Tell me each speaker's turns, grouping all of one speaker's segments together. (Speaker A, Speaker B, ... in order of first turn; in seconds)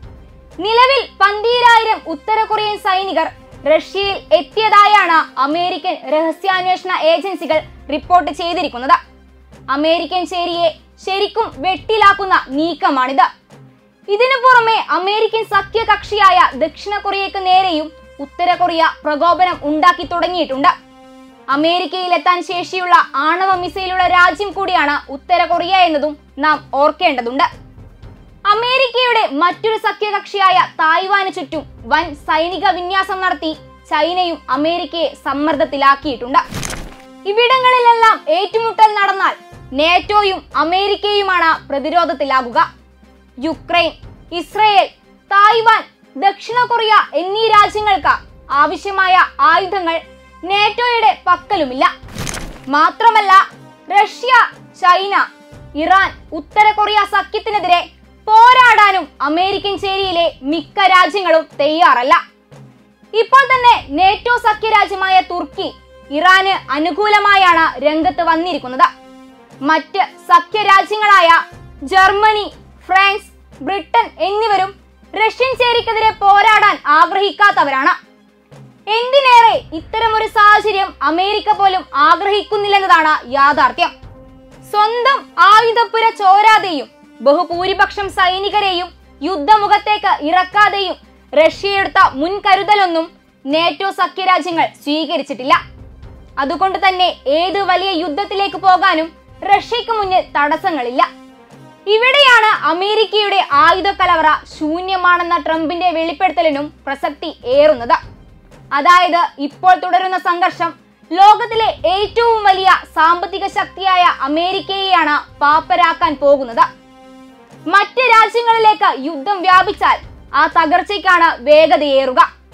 Speaker A: 0.6-9.0, 9.7-13.3, 14.1-20.7, 21.5-27.5, 28.5-36.4, 37.3-42.6, 43.4-51.9, 52.7-55.2, 55.8-62.2, 63.1-68.9, 69.7-78.0, 78.9-83.9, 84.7-95.6, 96.4-101.1, 101.9-108.0, 108.7-116.7, 117.7-122.3